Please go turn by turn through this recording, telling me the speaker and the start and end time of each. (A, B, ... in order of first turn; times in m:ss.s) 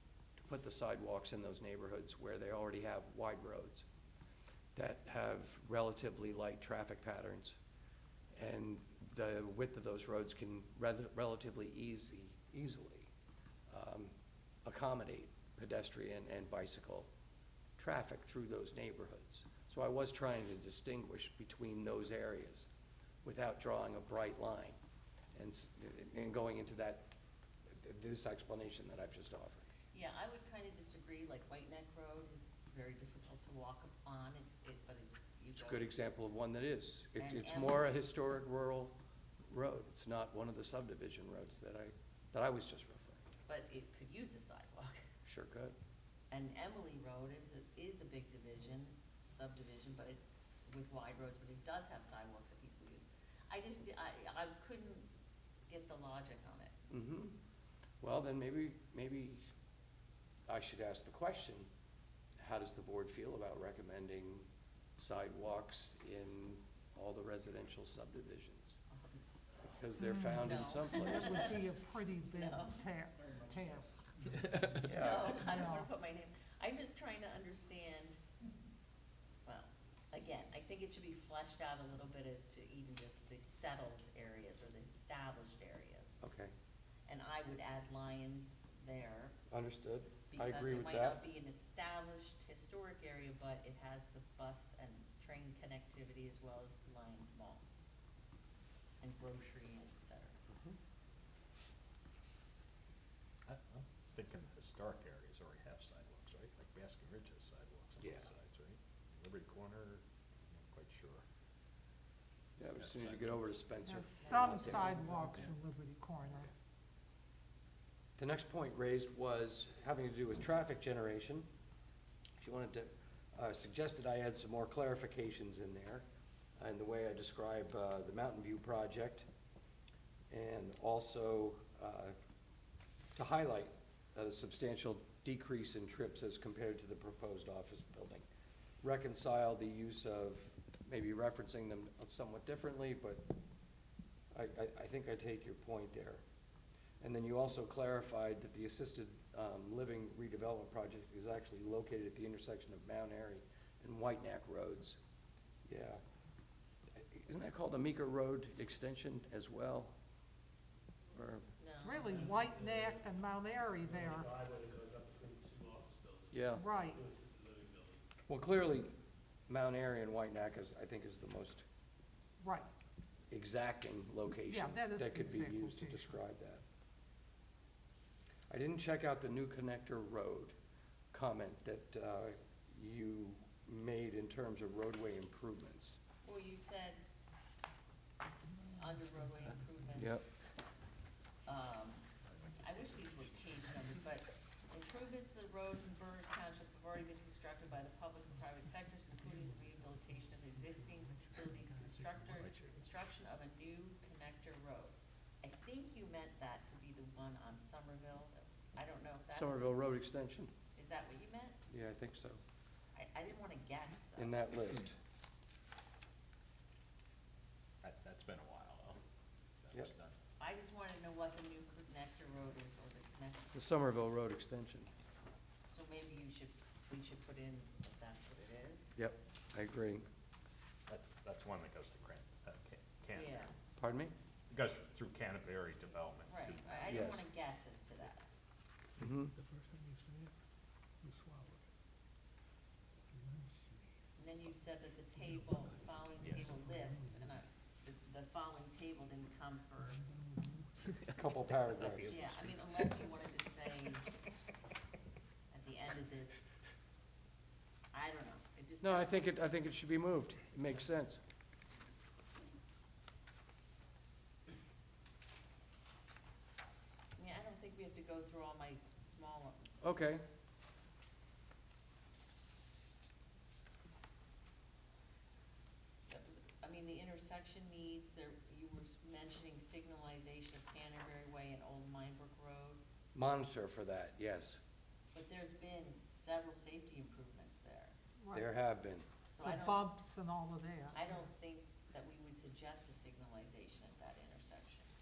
0:00.4-0:03.8 A
0:04.7-0:07.6 A
0:08.3-0:13.1 A
0:13.7-0:14.1 A
0:14.6-0:17.1 A
0:17.8-0:22.7 A
0:23.2-0:24.8 A
0:25.3-0:27.0 A
0:27.7-0:29.6 A
0:29.9-0:35.9 B
0:35.6-0:38.9 A
0:37.2-0:37.9 B
0:39.5-0:43.3 A
0:43.5-0:45.0 B
0:45.2-0:45.7 A
0:46.3-0:55.1 B
0:55.7-0:56.7 B
0:56.9-0:57.4 A
0:58.0-0:59.4 A
1:00.5-1:01.7 A
1:02.4-1:04.5 A
1:05.0-1:08.8 A
1:08.9-1:09.2 B
1:09.6-1:11.6 A
1:10.0-1:14.1 C
1:10.4-1:11.6 B
1:12.3-1:12.8 B
1:14.4-1:15.5 A
1:14.8-1:18.2 B
1:15.4-1:15.9 C
1:19.4-1:26.2 B
1:26.2-1:26.5 A
1:27.1-1:29.3 B
1:29.5-1:31.2 A
1:30.3-1:37.6 B
1:39.0-1:40.4 B
1:40.5-1:40.8 A
1:43.4-1:51.2 D
1:52.6-1:55.5 A
1:52.7-1:53.5 D
1:53.9-1:56.5 C
1:54.2-1:55.5 B
1:58.2-2:01.5 A
2:02.4-2:06.0 A
2:06.6-2:09.2 A
2:10.3-2:12.2 A
2:13.1-2:18.2 A
2:18.8-2:23.2 A
2:24.3-2:26.2 A
2:27.0-2:35.0 A
2:35.6-2:36.0 A
2:36.9-2:39.9 A
2:41.1-2:41.4 A
2:41.6-2:42.2 B
2:41.8-2:44.3 C
2:42.1-2:43.0 E
2:43.9-2:48.0 E
2:46.3-2:46.7 A
2:46.6-2:47.0 C
2:48.3-2:48.9 A
2:49.5-2:51.6 A
2:52.4-2:52.7 C
2:53.3-2:56.6 A
2:54.4-2:56.2 C
2:58.5-3:00.5 A
3:01.1-3:06.0 A
3:06.2-3:07.0 B
3:08.6-3:10.1 F
3:08.8-3:10.3 B
3:10.0-3:10.2 A
3:11.5-3:29.8 B
3:12.4-3:12.9 D
3:18.3-3:22.5 F
3:22.3-3:22.8 D
3:29.3-3:30.5 A
3:30.8-3:31.6 B
3:31.7-3:32.4 A
3:32.9-3:34.4 B
3:34.2-3:34.9 A
3:37.8-3:39.0 D
3:39.6-3:40.1 D
3:40.4-3:43.6 B
3:43.5-3:44.9 A
3:45.7-3:48.9 B
3:49.0-3:50.0 A
3:50.9-3:53.5 D
3:53.1-3:53.5 B
3:53.8-3:54.1 A
3:54.5-3:57.2 D
3:56.2-3:58.3 B
3:56.9-3:57.2 A
3:59.0-3:59.3 A
3:59.3-4:00.3 F
4:01.0-4:01.6 F
4:03.1-4:03.8 F
4:04.2-4:10.0 B
4:05.2-4:07.4 F
4:06.2-4:06.5 D
4:09.8-4:11.0 F
4:11.1-4:12.1 A
4:11.8-4:12.9 D
4:12.1-4:14.0 B
4:15.5-4:16.4 B
4:17.9-4:19.2 B
4:18.8-4:21.2 A
4:27.2-4:29.9 B
4:29.8-4:30.2 A
4:36.1-4:42.8 B
4:43.1-4:44.6 A
4:45.1-4:48.0 B
4:48.2-4:48.4 C
4:48.3-4:49.0 A
4:49.3-4:49.9 B
4:49.4-4:51.0 C
4:50.9-4:54.9 B